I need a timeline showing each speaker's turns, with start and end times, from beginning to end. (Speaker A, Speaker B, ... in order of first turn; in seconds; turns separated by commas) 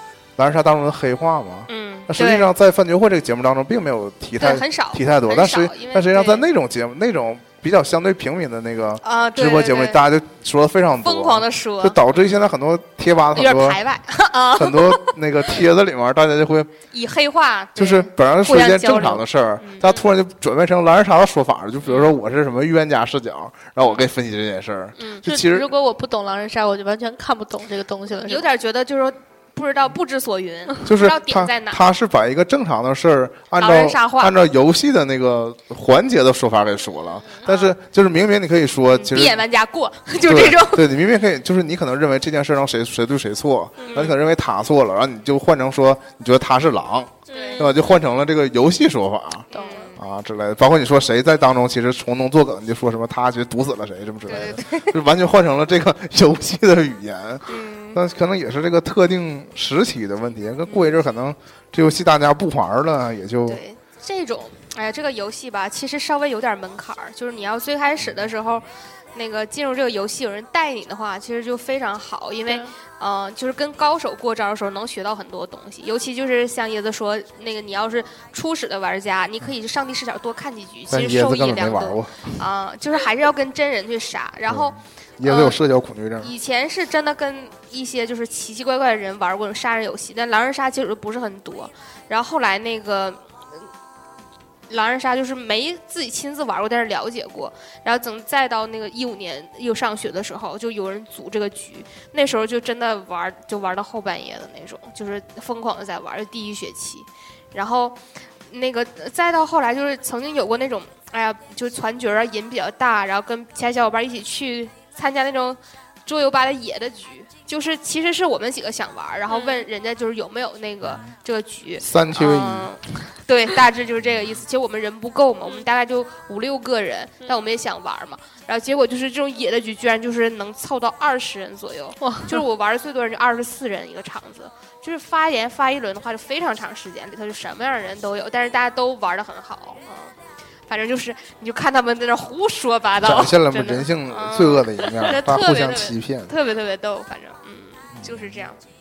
Speaker A: 0.3-13.8, Speaker B: 1.7-2.5, Speaker B: 4.4-6.5, Speaker B: 9.0-10.0, Speaker B: 11.0-12.0, Speaker B: 13.3-15.6, Speaker A: 14.5-16.7, Speaker B: 16.9-20.1, Speaker A: 17.7-25.7, Speaker B: 21.9-22.1, Speaker B: 23.8-24.1, Speaker B: 25.0-25.2, Speaker C: 25.2-28.5, Speaker B: 28.1-31.8, Speaker A: 30.8-39.4, Speaker B: 33.6-34.3, Speaker B: 37.4-37.7, Speaker B: 38.9-40.9, Speaker A: 40.2-63.6, Speaker B: 43.8-44.2, Speaker C: 47.3-47.7, Speaker B: 47.3-47.8, Speaker C: 49.5-49.9, Speaker B: 49.5-50.0, Speaker B: 54.3-55.0, Speaker B: 57.5-58.0, Speaker B: 60.7-61.0, Speaker B: 63.5-85.6, Speaker A: 80.9-82.3, Speaker A: 84.5-86.3, Speaker B: 86.2-93.2, Speaker B: 94.7-140.1, Speaker C: 119.3-119.6, Speaker A: 121.8-122.7, Speaker C: 132.0-132.4, Speaker B: 140.7-148.6, Speaker A: 143.0-146.3, Speaker A: 147.9-148.4